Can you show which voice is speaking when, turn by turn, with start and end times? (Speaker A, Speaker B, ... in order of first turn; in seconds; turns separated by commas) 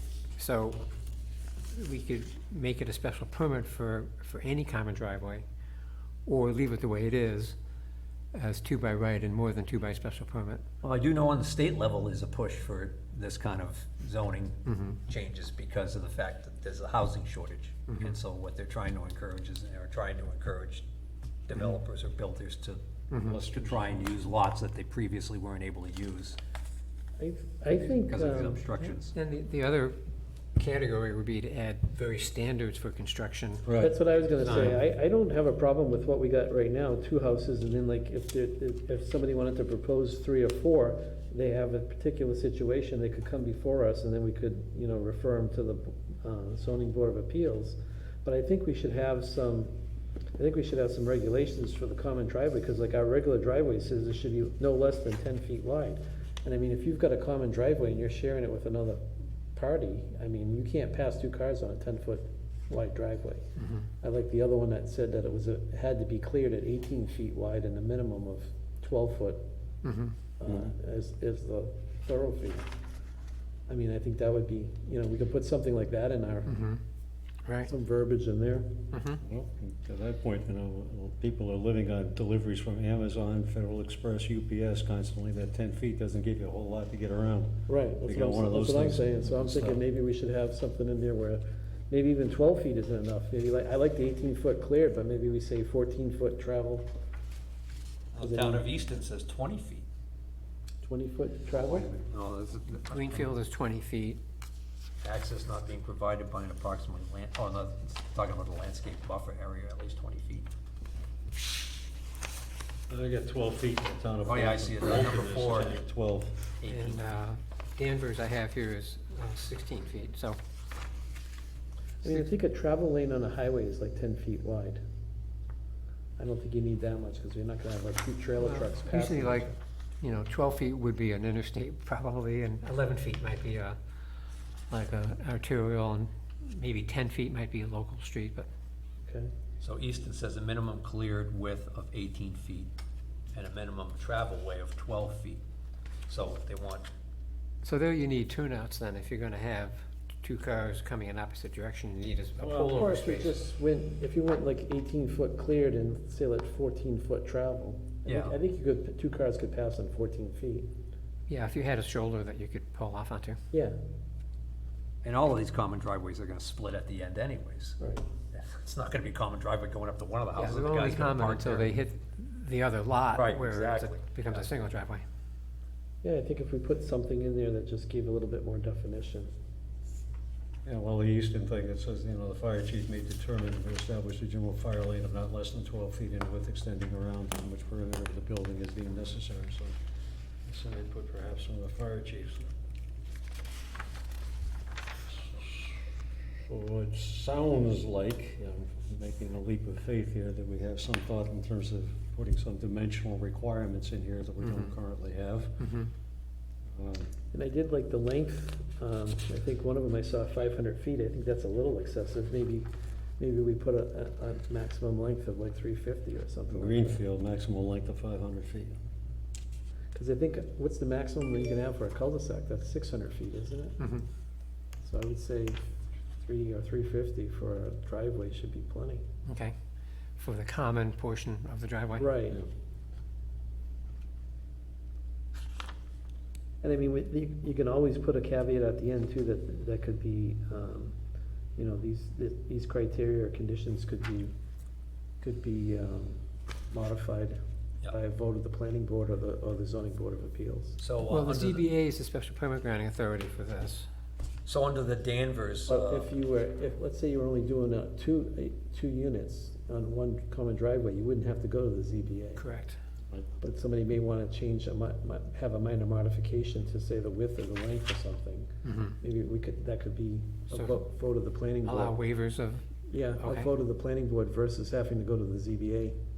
Speaker A: 0.4-0.8, Speaker A: 1.7-5.5, Speaker A: 6.3-7.6, Speaker A: 8.3-10.6, Speaker B: 10.8-20.9, Speaker A: 14.7-15.0, Speaker B: 21.5-26.4, Speaker A: 23.1-23.4, Speaker C: 23.3-24.3, Speaker D: 27.2-28.7, Speaker B: 28.1-29.1, Speaker A: 28.8-30.0, Speaker A: 30.6-34.8, Speaker C: 33.6-34.0, Speaker D: 33.8-49.7, Speaker D: 50.4-59.0, Speaker D: 59.5-63.4, Speaker A: 63.6-63.9, Speaker D: 64.0-69.4, Speaker A: 69.8-70.2, Speaker D: 70.4-72.7, Speaker D: 73.7-76.6, Speaker A: 76.5-76.8, Speaker A: 77.5-77.7, Speaker D: 77.7-78.7, Speaker A: 78.9-79.2, Speaker C: 79.2-89.8, Speaker D: 87.7-96.9, Speaker B: 98.1-99.9, Speaker D: 98.2-98.7, Speaker D: 100.8-101.9, Speaker B: 101.5-103.3, Speaker A: 102.9-104.2, Speaker B: 105.0-110.5, Speaker C: 112.9-116.4, Speaker B: 114.2-115.8, Speaker B: 116.6-117.1, Speaker A: 116.7-120.4, Speaker D: 122.0-124.8, Speaker D: 126.2-129.6, Speaker A: 128.4-129.5, Speaker A: 130.0-133.8, Speaker A: 134.7-138.5, Speaker D: 139.1-139.3, Speaker B: 139.6-142.7, Speaker B: 143.3-145.4, Speaker B: 146.1-146.9, Speaker A: 147.6-153.4, Speaker C: 152.4-152.8, Speaker D: 152.7-160.7, Speaker B: 158.1-158.4, Speaker A: 161.3-163.4, Speaker B: 165.0-167.8, Speaker B: 168.3-171.7, Speaker A: 170.3-175.1, Speaker B: 173.1-174.5, Speaker D: 176.0-179.3, Speaker C: 180.7-189.8, Speaker C: 190.5-192.5, Speaker C: 195.1-205.6, Speaker A: 204.4-204.8, Speaker A: 205.6-205.9, Speaker C: 206.7-207.1, Speaker D: 207.3-212.7, Speaker D: 213.2-217.0, Speaker C: 216.5-218.8, Speaker D: 219.9-223.8, Speaker A: 223.8-224.1, Speaker D: 224.8-225.6, Speaker D: 226.2-229.0, Speaker A: 229.3-229.6, Speaker A: 230.2-232.1, Speaker D: 232.0-232.4, Speaker D: 236.6-241.0, Speaker D: 241.6-244.3, Speaker D: 245.2-250.8, Speaker B: 250.8-251.7, Speaker A: 251.1-253.9, Speaker B: 254.5-256.1, Speaker D: 255.7-262.4, Speaker A: 262.4-262.8, Speaker D: 263.4-268.5, Speaker A: 268.6-269.0, Speaker D: 269.0-272.0, Speaker A: 270.5-270.8, Speaker A: 271.6-272.6, Speaker D: 272.9-276.0, Speaker A: 273.1-273.5